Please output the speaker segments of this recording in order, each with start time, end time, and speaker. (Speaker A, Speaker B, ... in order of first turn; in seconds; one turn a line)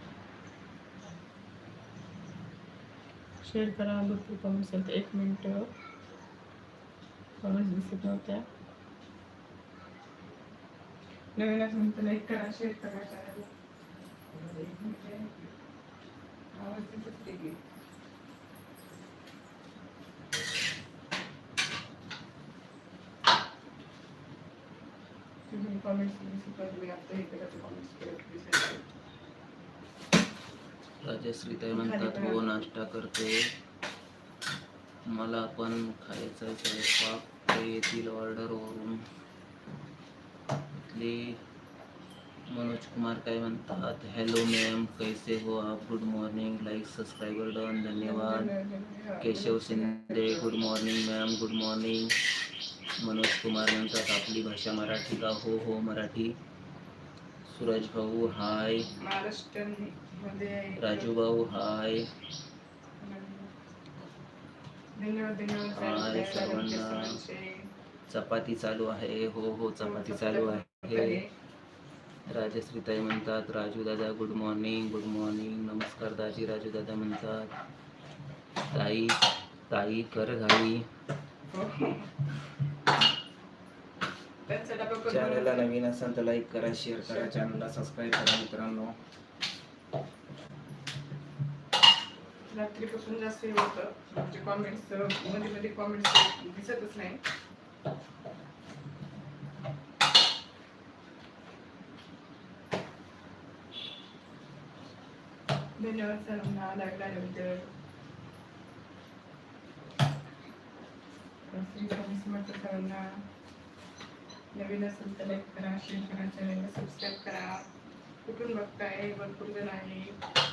Speaker A: 3.4-5.7
Speaker A: 7.4-8.4
Speaker A: 11.4-13.5
Speaker A: 14.3-15.5
Speaker A: 16.6-17.6
Speaker A: 25.5-28.8
Speaker B: 31.0-33.5
Speaker A: 31.7-32.6
Speaker B: 35.1-39.1
Speaker B: 40.8-41.4
Speaker B: 42.5-48.5
Speaker A: 48.0-50.6
Speaker B: 49.2-52.1
Speaker B: 53.0-56.4
Speaker B: 57.4-58.9
Speaker A: 59.0-61.1
Speaker B: 60.8-62.1
Speaker A: 63.0-63.5
Speaker A: 65.0-67.7
Speaker B: 65.7-67.2
Speaker B: 68.1-71.2
Speaker A: 69.8-71.3
Speaker B: 72.3-77.5
Speaker B: 78.7-80.9
Speaker A: 81.5-82.1
Speaker A: 84.5-85.6
Speaker B: 85.1-89.0
Speaker A: 87.0-87.3
Speaker A: 92.5-97.2
Speaker A: 105.8-107.7
Speaker A: 111.5-113.0
Speaker A: 114.5-117.6
Speaker A: 118.2-120.2